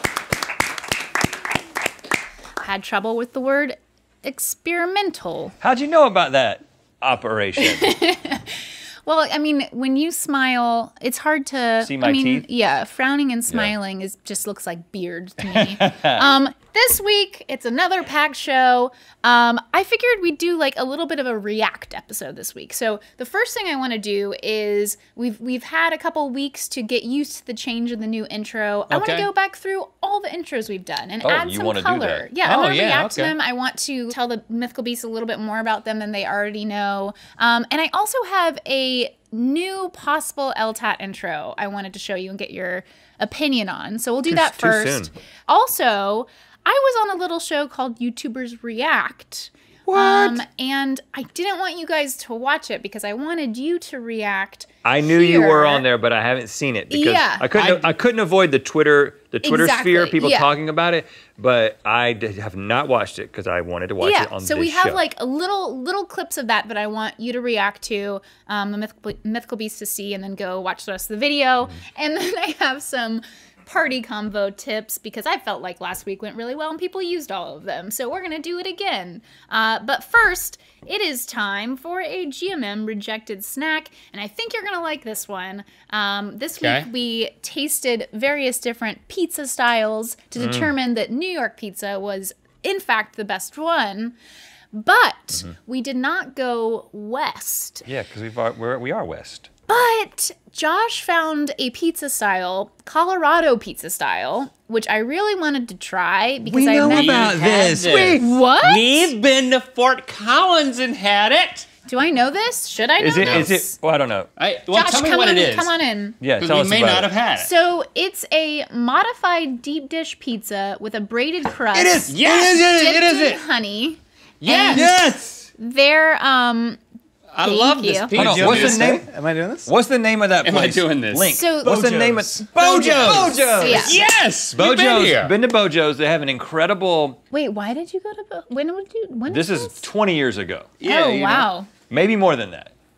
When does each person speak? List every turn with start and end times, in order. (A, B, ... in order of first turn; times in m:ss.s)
0:02.6-0:05.5 A
0:05.6-0:07.9 B
0:07.6-0:55.8 A
0:11.8-0:12.4 B
0:15.4-0:16.2 B
0:28.9-0:29.3 C
0:31.2-0:32.3 B
0:32.4-0:33.3 C
0:44.3-0:45.1 B
0:49.9-0:50.4 B
0:54.8-1:05.0 B
0:56.9-0:57.5 A
0:57.5-0:57.9 C
0:59.4-1:00.5 A
1:04.0-1:34.1 A
1:26.6-1:26.9 C
1:30.4-1:30.7 B
1:34.7-1:37.8 A
1:37.8-1:39.5 B
1:39.7-1:49.1 A
1:46.4-1:48.3 B
1:46.8-1:51.7 C
1:51.8-1:53.7 A
1:53.0-1:54.3 B
1:53.2-1:53.5 C
1:54.4-1:55.7 C
1:54.7-1:56.2 A
1:56.2-1:57.1 B
1:56.4-1:57.5 C
1:57.4-2:04.8 A
2:01.7-2:03.4 B
2:02.1-2:03.0 C
2:04.4-2:04.9 C
2:04.7-2:05.5 B
2:05.6-2:06.8 A
2:07.3-2:09.0 C
2:07.4-2:08.2 A
2:08.1-2:09.1 B
2:08.2-2:09.7 D
2:09.6-2:17.2 B
2:10.4-2:11.3 C
2:11.3-2:11.9 A
2:11.7-2:13.5 D
2:12.6-2:14.0 A
2:13.0-2:15.3 C
2:17.3-2:19.9 A
2:19.3-2:20.7 B
2:20.8-2:21.5 C
2:20.8-2:21.7 A
2:21.9-2:22.7 B